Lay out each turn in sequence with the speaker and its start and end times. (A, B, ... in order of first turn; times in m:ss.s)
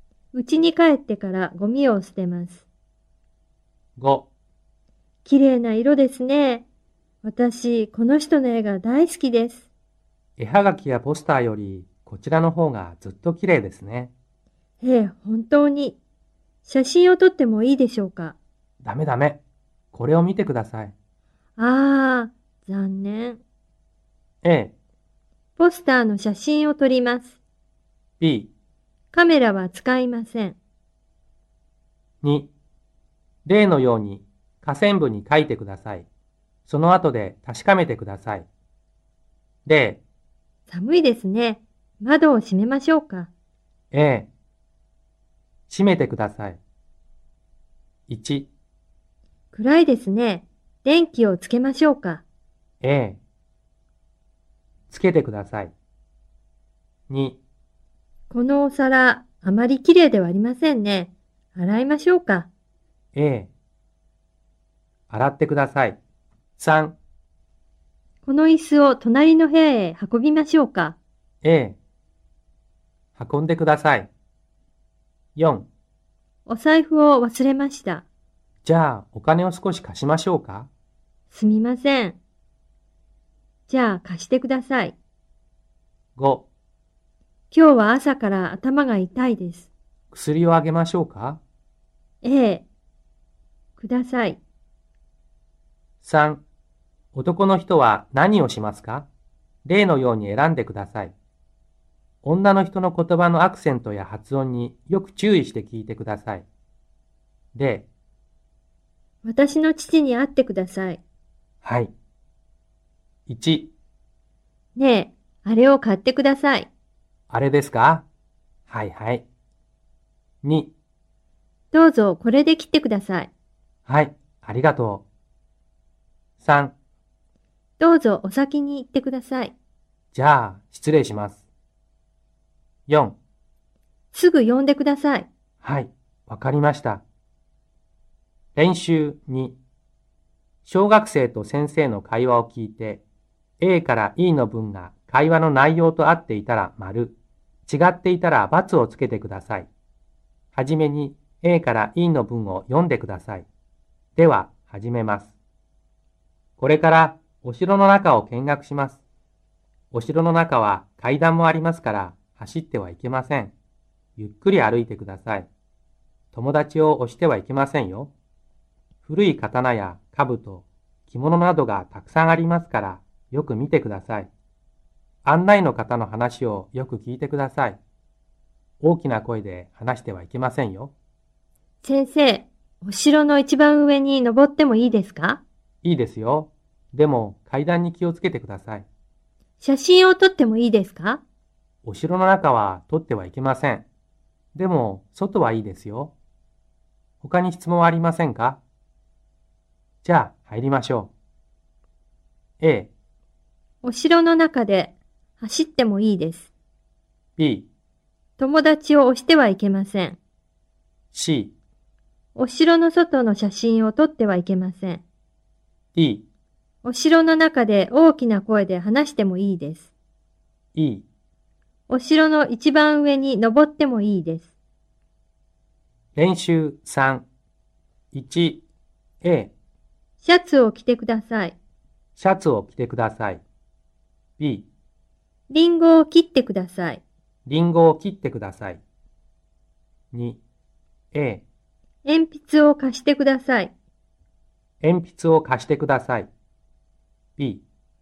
0:00.3-0:02.6 A
0:04.0-0:04.3 B
0:05.2-0:06.6 A
0:07.2-0:09.7 A
0:10.4-0:14.1 B
0:14.8-0:16.0 A
0:16.6-0:18.4 A
0:18.8-0:19.4 B
0:19.9-0:20.9 B
0:21.6-0:23.4 A
0:24.4-0:24.7 B
0:25.6-0:27.4 A
0:28.2-0:28.5 B
0:29.1-0:30.6 A
0:32.2-0:32.5 B
0:33.5-0:36.1 B
0:36.7-0:38.5 B
0:39.7-0:40.0 B
0:40.7-0:43.3 A
0:43.9-0:44.3 B
0:45.7-0:46.6 B
0:48.1-0:48.5 B
0:49.5-0:52.2 A
0:52.8-0:53.2 B
0:54.9-0:55.7 B
0:57.1-0:57.4 B
0:58.3-1:02.5 A
1:03.2-1:03.5 B
1:05.1-1:06.0 B
1:06.6-1:07.0 B
1:08.2-1:11.0 A
1:11.4-1:11.8 B
1:13.2-1:14.1 B
1:15.4-1:15.7 B
1:16.5-1:18.0 A
1:18.6-1:20.7 B
1:21.3-1:22.2 A
1:23.7-1:25.0 A
1:26.2-1:26.5 B
1:27.5-1:29.7 A
1:30.1-1:31.4 B
1:32.2-1:32.6 A
1:33.8-1:34.4 A
1:36.0-1:36.4 B
1:37.1-1:39.1 B
1:39.6-1:41.1 B
1:42.2-1:46.5 B
1:47.6-1:47.9 B
1:49.2-1:51.0 A
1:51.6-1:51.9 B
1:53.3-1:53.7 B
1:54.8-1:56.7 A
1:57.3-1:58.1 B
1:58.7-1:59.3 B
2:00.4-2:00.7 B
2:01.7-2:03.3 A
2:03.9-2:05.1 B
2:06.4-2:06.8 B
2:07.8-2:09.6 A
2:10.1-2:11.5 B
2:12.9-2:13.2 B
2:14.1-2:15.3 A
2:15.6-2:17.0 B
2:18.6-2:19.6 B
2:20.6-2:23.0 B
2:23.6-2:29.7 B
2:30.5-2:33.5 B
2:34.2-2:35.4 B
2:36.6-2:39.0 B
2:39.9-2:43.5 B
2:44.2-2:45.5 B
2:46.3-2:48.1 B
2:49.1-2:54.3 B
2:55.2-2:57.8 B
2:58.8-3:00.9 B
3:01.8-3:05.4 A
3:05.8-3:08.9 B
3:09.6-3:11.2 A
3:11.8-3:13.9 B
3:14.6-3:16.1 B
3:17.2-3:18.6 B
3:20.0-3:21.1 B
3:22.6-3:22.9 B
3:23.8-3:26.5 A
3:27.4-3:27.7 B
3:28.4-3:30.2 A
3:31.1-3:31.5 B
3:32.4-3:35.0 A
3:36.0-3:36.3 B
3:36.8-3:39.9 A
3:40.8-3:41.1 B
3:41.9-3:44.5 A
3:46.2-3:47.3 B
3:48.1-3:48.6 B
3:49.2-3:49.5 B
3:50.2-3:51.6 A
3:52.2-3:53.4 B
3:54.4-3:54.7 B
3:55.5-3:57.0 A
3:57.5-3:58.8 B
4:00.1-4:00.4 B
4:01.1-4:01.4 B
4:02.0-4:03.7 A
4:04.8-4:06.3 B
4:07.4-4:07.6 B